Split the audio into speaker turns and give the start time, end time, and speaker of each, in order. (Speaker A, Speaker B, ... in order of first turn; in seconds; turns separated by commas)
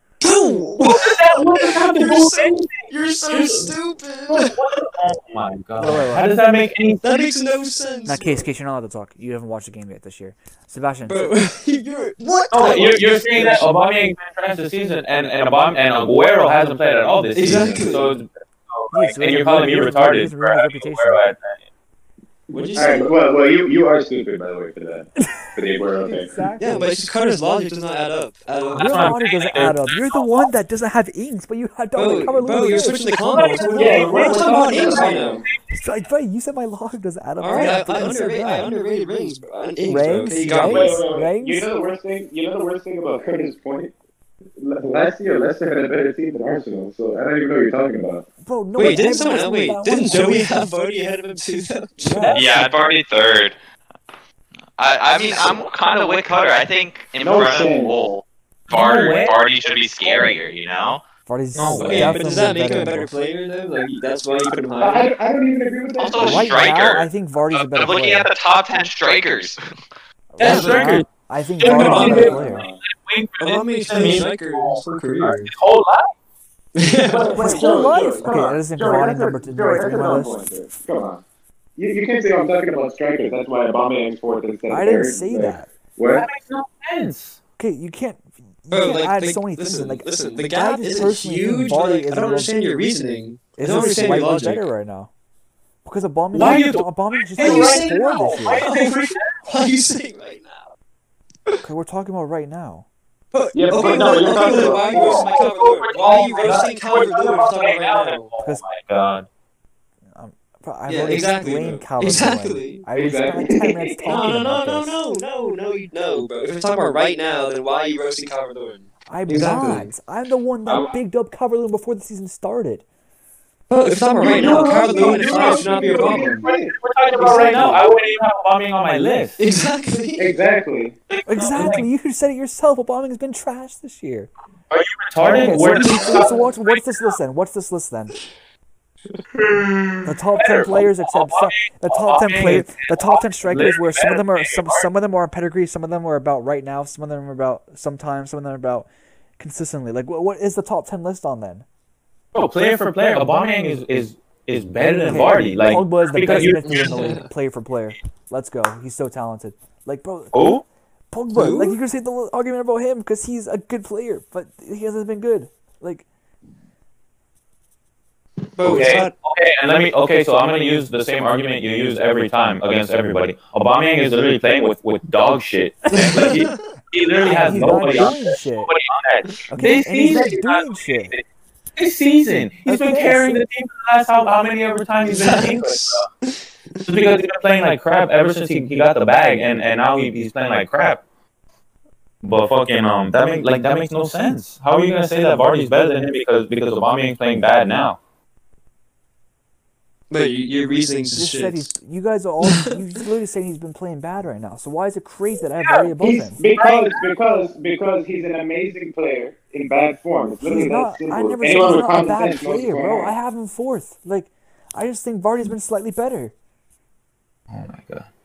Speaker A: 0.2-4.6, Speaker B: 0.8-3.7, Speaker B: 4.3-7.0, Speaker C: 5.8-6.4, Speaker A: 7.0-8.5, Speaker C: 8.1-11.4, Speaker A: 11.1-13.7, Speaker B: 12.5-21.6, Speaker A: 17.4-18.2, Speaker C: 18.9-21.3, Speaker A: 22.5-23.1, Speaker D: 22.7-26.3, Speaker C: 25.2-27.0, Speaker A: 26.6-29.1, Speaker B: 28.8-30.5, Speaker C: 28.8-33.0, Speaker A: 31.9-35.4, Speaker B: 33.3-35.0, Speaker D: 33.8-35.5, Speaker C: 35.7-38.8, Speaker A: 37.4-41.1, Speaker C: 39.8-41.7, Speaker D: 40.6-43.9, Speaker D: 44.6-48.3, Speaker C: 48.4-50.6, Speaker A: 48.8-52.4, Speaker C: 52.0-52.6, Speaker B: 52.2-52.7, Speaker E: 52.3-53.5, Speaker E: 54.8-61.0, Speaker D: 57.2-58.0, Speaker C: 58.7-59.3, Speaker B: 58.7-59.3, Speaker C: 61.3-63.1, Speaker B: 61.5-62.2, Speaker A: 61.8-65.1, Speaker D: 64.8-66.6, Speaker E: 66.0-69.6, Speaker C: 66.2-68.3, Speaker C: 70.3-72.7, Speaker B: 70.4-76.1, Speaker A: 70.4-70.8, Speaker A: 71.6-72.5, Speaker D: 71.7-72.8, Speaker A: 73.4-75.5, Speaker A: 76.8-77.7, Speaker D: 77.0-81.2, Speaker C: 77.3-80.5, Speaker D: 81.8-86.3, Speaker C: 84.7-85.7, Speaker B: 86.1-87.4, Speaker C: 87.6-92.5, Speaker A: 88.7-94.7, Speaker C: 93.6-95.1, Speaker C: 95.8-98.7, Speaker B: 96.3-99.4, Speaker A: 97.4-100.7, Speaker C: 101.6-102.9, Speaker A: 103.3-108.3, Speaker D: 103.5-105.3, Speaker B: 103.9-109.3, Speaker C: 108.4-108.6, Speaker C: 110.1-115.0, Speaker A: 110.9-112.9, Speaker D: 113.0-114.0, Speaker A: 114.1-119.9, Speaker C: 119.1-122.8, Speaker D: 120.7-120.9, Speaker A: 123.7-126.5, Speaker D: 124.2-127.9, Speaker B: 125.0-129.4, Speaker A: 127.2-127.8, Speaker A: 129.4-130.3, Speaker D: 130.2-131.0, Speaker B: 131.1-131.8, Speaker C: 131.3-134.3, Speaker B: 134.7-136.8, Speaker C: 135.2-138.2, Speaker B: 139.4-144.8, Speaker C: 140.1-148.9, Speaker C: 149.4-151.7, Speaker B: 152.3-157.1, Speaker C: 155.0-160.6, Speaker A: 156.8-157.2, Speaker B: 160.3-160.6, Speaker C: 161.1-166.1, Speaker A: 161.3-161.8, Speaker A: 168.6-169.1, Speaker B: 168.6-181.2, Speaker C: 177.2-178.7, Speaker C: 179.5-181.2, Speaker B: 181.8-186.1, Speaker C: 182.7-183.4, Speaker A: 185.0-186.4, Speaker B: 186.8-191.0, Speaker B: 192.2-198.0, Speaker A: 200.1-201.8, Speaker C: 201.1-206.4, Speaker A: 202.4-202.8, Speaker B: 205.6-205.9, Speaker D: 206.0-213.1, Speaker B: 206.5-207.0, Speaker C: 210.4-216.3, Speaker B: 217.5-218.1